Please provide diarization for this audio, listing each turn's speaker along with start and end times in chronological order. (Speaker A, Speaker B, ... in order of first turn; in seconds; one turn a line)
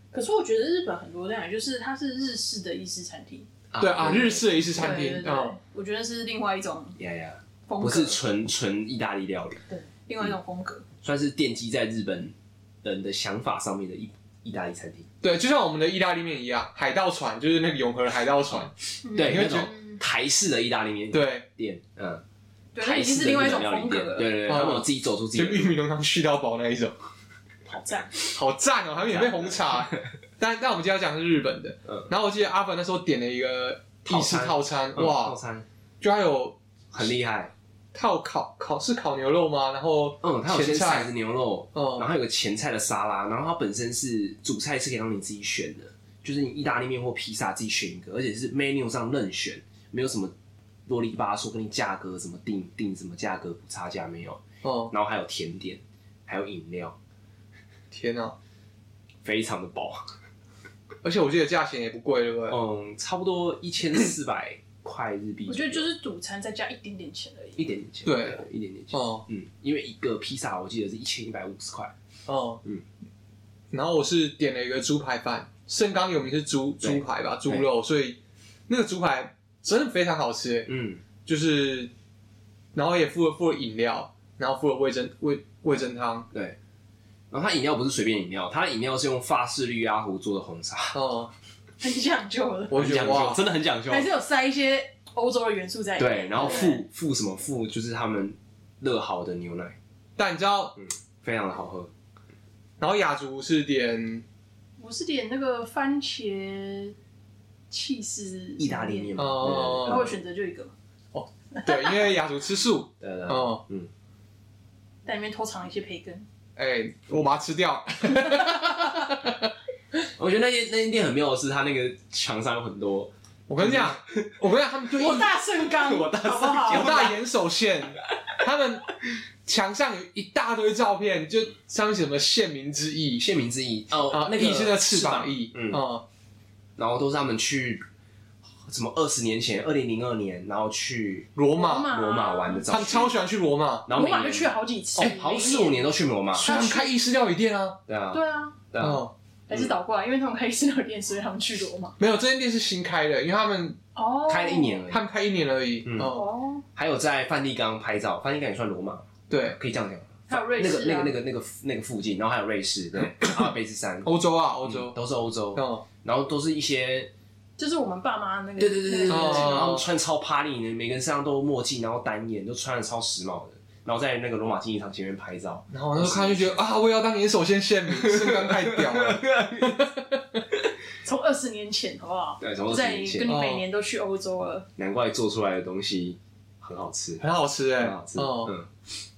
Speaker A: 0.1-3.5
Speaker B: 3.7-5.0
Speaker C: 3.8-5.6
Speaker A: 4.8-7.0
Speaker B: 7.0-9.6
Speaker A: 7.7-8.2
Speaker A: 9.7-10.8
Speaker B: 11.0-15.1
Speaker C: 15.2-19.7
Speaker A: 19.0-20.0
Speaker B: 19.1-22.2
Speaker C: 21.1-21.4
Speaker A: 22.7-24.5
Speaker B: 22.8-25.8
Speaker C: 24.4-26.9
Speaker B: 27.7-28.2
Speaker A: 27.8-28.1
Speaker C: 28.3-35.4
Speaker B: 29.1-30.1
Speaker B: 34.0-35.6
Speaker C: 36.0-36.6
Speaker B: 36.9-37.5
Speaker C: 37.9-41.1
Speaker B: 40.2-50.3
Speaker C: 41.7-42.1
Speaker B: 50.9-57.0
Speaker C: 54.6-54.9
Speaker C: 57.9-58.4
Speaker B: 59.2-60.1
Speaker C: 61.0-62.6
Speaker B: 62.5-65.9
Speaker A: 65.5-67.7
Speaker B: 67.6-71.9
Speaker C: 68.0-69.2
Speaker C: 72.3-72.6
Speaker C: 73.7-80.7
Speaker B: 76.8-77.7
Speaker B: 80.7-81.0
Speaker C: 81.2-81.9
Speaker C: 82.7-86.3
Speaker B: 86.3-86.6
Speaker B: 87.3-91.0
Speaker C: 90.9-91.3
Speaker A: 91.8-93.0
Speaker C: 92.7-93.4
Speaker B: 92.7-94.1
Speaker A: 93.9-96.8
Speaker B: 96.0-99.8
Speaker C: 100.2-100.7
Speaker B: 100.8-101.9
Speaker C: 102.8-104.2
Speaker A: 104.8-107.0
Speaker A: 107.7-110.7
Speaker B: 108.6-110.1
Speaker C: 109.2-110.1
Speaker C: 111.1-113.6
Speaker A: 111.5-112.1
Speaker B: 113.0-113.9
Speaker A: 115.0-116.3
Speaker C: 116.6-119.5
Speaker B: 120.2-124.3
Speaker C: 123.5-125.3
Speaker A: 125.0-127.1
Speaker B: 125.6-127.2
Speaker C: 126.7-128.9
Speaker C: 129.4-133.2
Speaker B: 133.2-135.8
Speaker C: 134.1-136.0
Speaker B: 136.8-137.8
Speaker B: 138.7-141.3
Speaker C: 141.3-141.9
Speaker A: 141.6-142.7
Speaker B: 141.8-143.2
Speaker C: 142.7-143.9
Speaker B: 143.9-146.4
Speaker A: 143.9-146.9
Speaker C: 146.3-147.8
Speaker B: 147.9-149.7
Speaker A: 148.1-148.6
Speaker C: 148.8-149.1
Speaker A: 149.5-152.0
Speaker C: 152.0-153.8
Speaker A: 153.9-154.8
Speaker B: 154.3-155.0
Speaker C: 154.9-156.2
Speaker B: 155.8-156.2
Speaker A: 156.0-156.6
Speaker B: 156.7-164.1
Speaker C: 159.3-159.6
Speaker A: 160.3-161.2
Speaker C: 164.0-165.0
Speaker B: 164.6-167.1
Speaker C: 165.5-165.8
Speaker A: 167.6-169.7
Speaker B: 168.6-176.6
Speaker C: 169.1-169.9
Speaker C: 175.7-180.4
Speaker B: 177.9-179.8
Speaker A: 181.0-184.7
Speaker B: 182.4-183.3
Speaker C: 183.2-183.6
Speaker B: 184.8-187.2
Speaker C: 187.2-188.5
Speaker B: 187.8-188.7